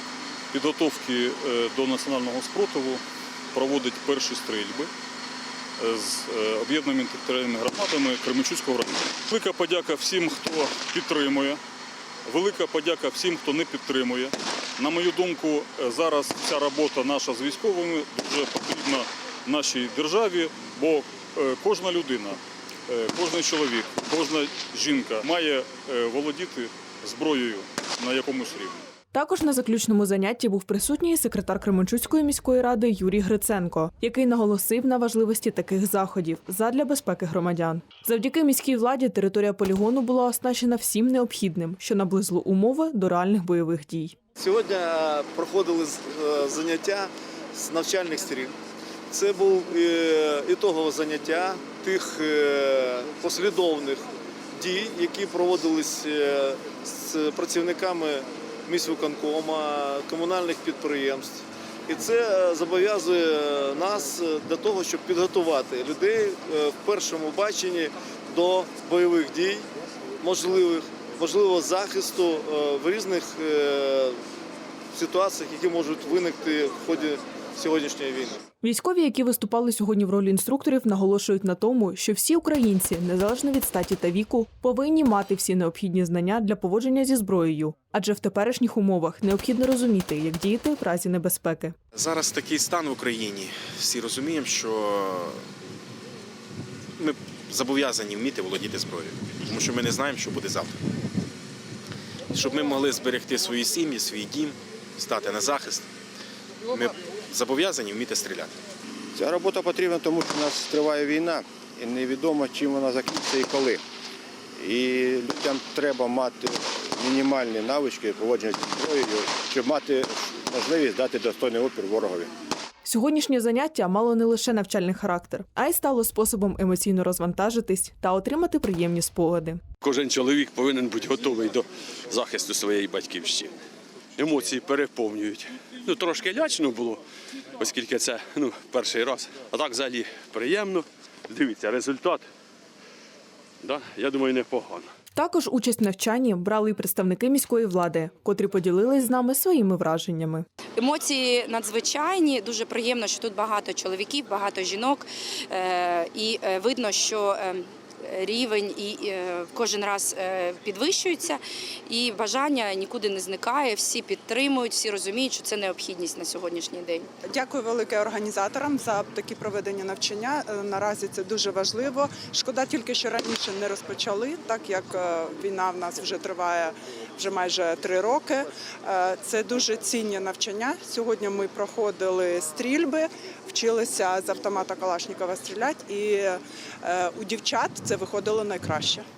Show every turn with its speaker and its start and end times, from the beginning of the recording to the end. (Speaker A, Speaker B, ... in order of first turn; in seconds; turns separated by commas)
Speaker A: 0.5-4.9, Speaker A: 5.8-11.6, Speaker A: 12.3-28.8, Speaker B: 29.1-44.1, Speaker C: 44.4-48.5, Speaker C: 49.1-69.7, Speaker C: 70.2-74.2, Speaker C: 74.9-78.4, Speaker B: 78.6-91.8, Speaker D: 91.9-95.5, Speaker D: 97.0-100.8, Speaker D: 102.3-105.9, Speaker D: 106.7-108.5, Speaker E: 109.1-113.8, Speaker E: 114.6-122.3, Speaker B: 122.8-129.6, Speaker F: 129.8-133.5, Speaker F: 134.2-137.0, Speaker F: 137.6-142.2, Speaker F: 143.6-144.9, Speaker B: 145.1-150.4, Speaker G: 150.8-167.1, Speaker H: 167.2-189.1